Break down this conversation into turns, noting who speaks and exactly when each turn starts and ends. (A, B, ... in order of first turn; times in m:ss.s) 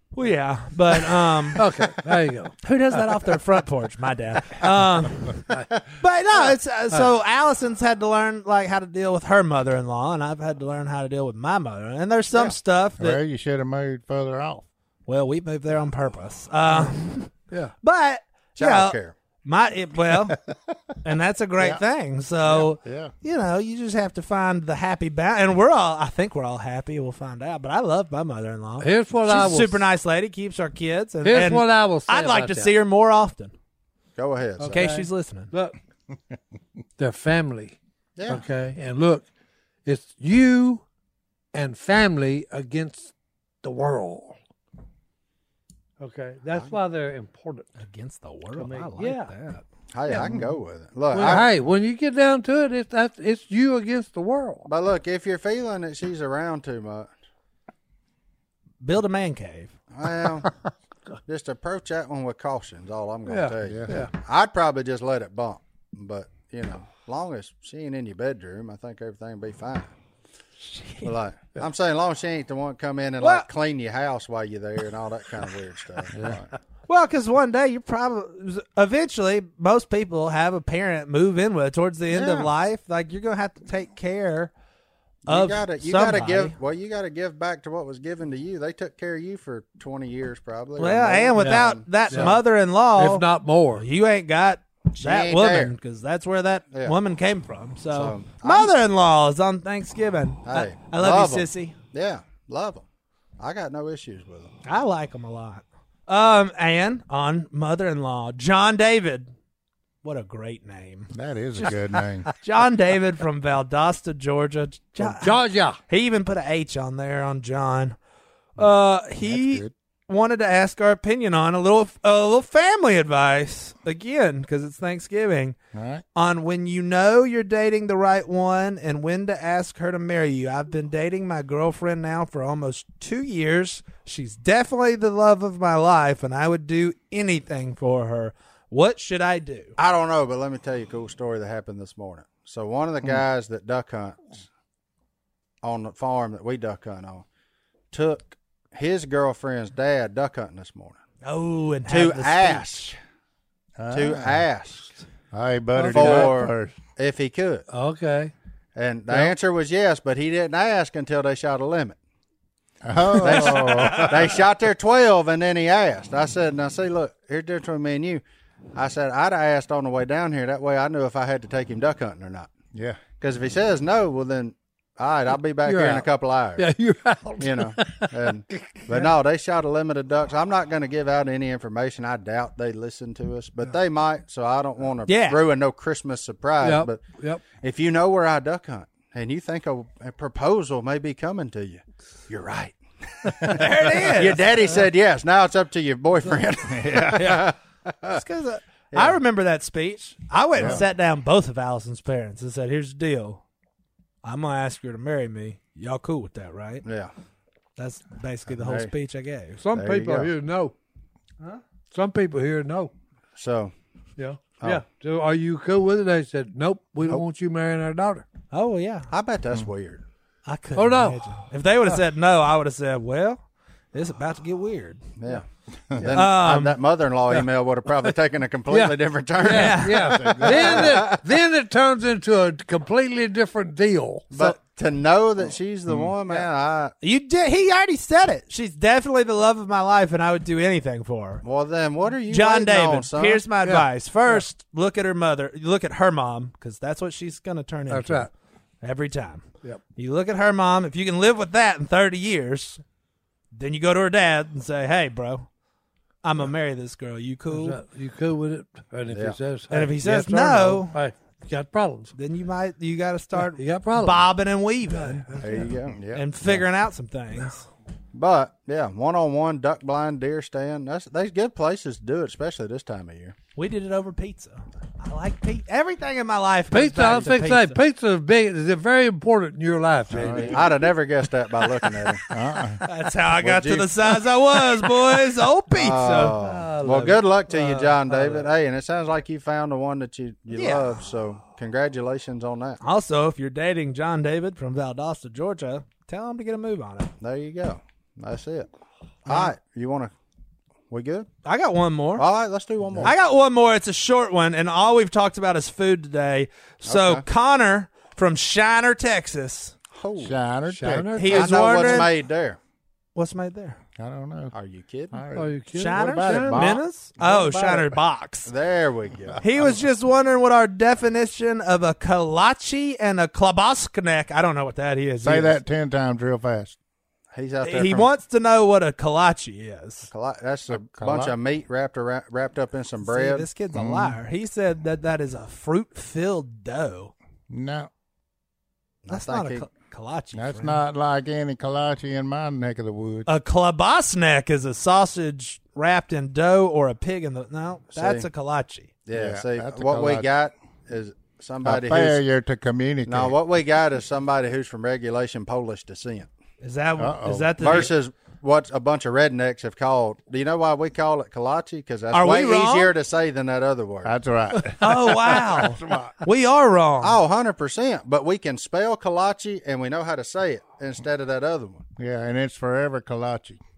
0:00.1-0:01.6 A
0:01.6-0:03.0 B
0:02.6-0:13.2 A
0:13.0-0:14.7 C
0:15.1-0:20.4 A
0:18.6-0:19.1 D
0:20.3-0:20.8 C
0:21.0-0:33.5 A
0:22.4-0:23.1 C
0:28.8-0:29.9 B
0:31.2-0:32.7 B
0:34.2-0:34.9 D
0:34.6-0:35.8 B
0:34.6-0:35.5 A
0:37.0-0:37.8 B
0:38.2-0:38.4 D
0:38.3-0:39.3 B
0:39.9-0:40.8 B
0:41.5-0:44.4 B
0:46.0-0:47.7 B
0:47.8-0:49.6 A
0:48.6-0:49.3 B
0:49.9-0:51.5 D
0:51.1-0:54.7 B
0:54.7-0:57.1 D
0:58.8-0:59.8 A
0:59.9-1:00.5 D
1:01.3-1:09.9 D
1:03.3-1:04.1 B
1:03.6-1:04.0 C
1:10.7-1:11.1 A
1:11.0-1:16.5 D
1:13.2-1:13.5 A
1:16.1-1:16.4 C
1:16.9-1:24.5 A
1:22.1-1:22.5 D
1:25.3-1:26.6 A
1:25.3-1:32.4 D
1:30.8-1:41.8 A
1:31.4-1:32.4 B
1:33.0-1:33.9 B
1:34.9-1:35.7 D
1:37.9-1:38.7 D
1:40.5-1:42.8 D
1:43.4-1:44.5 D
1:44.7-1:49.3 A
1:50.0-1:58.0 A
1:51.1-1:52.3 C
1:55.0-1:55.8 B
1:58.6-2:05.6 A
1:58.6-1:59.7 C
2:05.7-2:06.0 C
2:06.2-2:19.8 A
2:19.8-2:24.4 D
2:25.6-2:27.2 D
2:27.9-2:31.0 D
2:31.2-2:32.9 A
2:31.9-2:33.0 D
2:33.8-2:34.4 C
2:33.9-2:34.9 D
2:35.3-2:36.7 C
2:35.8-2:36.3 B
2:35.9-2:37.6 D
2:37.7-2:38.3 B
2:38.8-2:42.0 D
2:42.8-2:44.4 C
2:43.2-2:48.2 D
2:43.4-2:44.2 A
2:48.8-2:52.5 D
2:52.7-2:53.0 C
2:53.2-2:56.7 D
2:55.6-2:58.8 B
2:57.4-3:07.0 D
3:05.1-3:05.4 A
3:06.6-3:07.4 B
3:07.5-3:18.2 D
3:13.5-3:14.5 A
3:16.7-3:17.4 C
3:18.1-3:23.4 A
3:18.9-3:19.2 D
3:20.6-3:20.8 C
3:24.2-3:26.8 A
3:26.8-3:27.1 D
3:27.8-3:29.6 A
3:28.5-3:28.9 D
3:29.6-3:30.8 B
3:29.7-3:30.3 D
3:31.9-3:32.9 B
3:33.4-3:33.7 D
3:34.2-3:38.2 B
3:38.5-3:39.1 A
3:39.1-3:40.0 D
3:40.5-3:43.4 A
3:40.8-3:41.2 B
3:43.9-3:45.0 A
3:45.2-3:45.4 D
3:46.0-3:51.2 D
3:46.1-3:46.8 A
3:48.7-3:54.3 B
3:49.4-3:50.2 A
3:50.1-3:51.1 C
3:54.3-3:56.9 D
3:55.9-3:56.1 C
3:57.0-4:01.4 A
4:01.4-4:03.4 D
4:02.3-4:08.3 A
4:03.6-4:04.4 B
4:07.9-4:08.3 B
4:08.8-4:09.4 A
4:10.0-4:12.8 A
4:13.5-4:15.5 A
4:16.2-4:17.8 A
4:17.5-4:22.1 B
4:19.1-4:19.4 D
4:19.7-4:21.0 A
4:22.2-4:25.3 A
4:23.4-4:24.3 B
4:24.9-4:25.7 B
4:25.4-4:26.0 D
4:25.9-4:26.6 C
4:26.1-4:27.7 A
4:28.1-4:33.4 D
4:33.6-4:37.8 A
4:36.7-4:40.9 B
4:40.1-4:40.7 C
4:40.2-4:42.2 D
4:42.3-4:42.8 C
4:42.8-4:46.4 A
4:43.4-4:44.0 D
4:45.7-4:52.8 D
4:46.4-4:48.5 B
4:50.5-4:50.9 A
4:52.8-4:57.1 A
4:57.2-4:58.7 D
4:59.2-5:00.1 D
4:59.3-4:59.5 A
5:00.9-5:01.3 D
5:01.4-5:02.3 A
5:02.2-5:03.1 D
5:02.9-5:03.2 C
5:03.0-5:09.7 A
5:06.9-5:07.2 D
5:09.9-5:10.4 D
5:10.2-5:11.3 C
5:10.7-5:12.0 B
5:11.2-5:12.2 A
5:11.3-5:12.6 D
5:13.2-5:13.8 A
5:14.0-5:14.5 C
5:14.5-5:15.2 D
5:15.1-5:18.0 C
5:15.3-5:16.8 B
5:15.8-5:18.5 A
5:18.5-5:19.4 D
5:19.3-5:19.8 C
5:19.4-5:25.6 A
5:25.2-5:26.8 C
5:27.3-5:28.1 D
5:27.6-5:30.1 A
5:30.1-5:33.5 D
5:30.7-5:31.4 C
5:33.0-5:37.1 A
5:33.7-5:34.2 C
5:37.5-5:37.9 C
5:39.0-5:39.6 D
5:39.1-5:40.8 A
5:40.3-5:43.3 C
5:43.3-5:48.9 A
5:48.0-5:48.3 D
5:49.1-5:52.2 D
5:49.1-5:50.3 C
5:51.6-5:53.4 C
5:53.1-5:56.3 D
5:56.6-5:57.9 A
5:57.0-5:57.9 C
5:57.6-6:04.1 D
6:02.1-6:02.9 A
6:04.0-6:06.2 C
6:04.8-6:07.2 A
6:07.0-6:11.8 D
6:12.0-6:13.6 C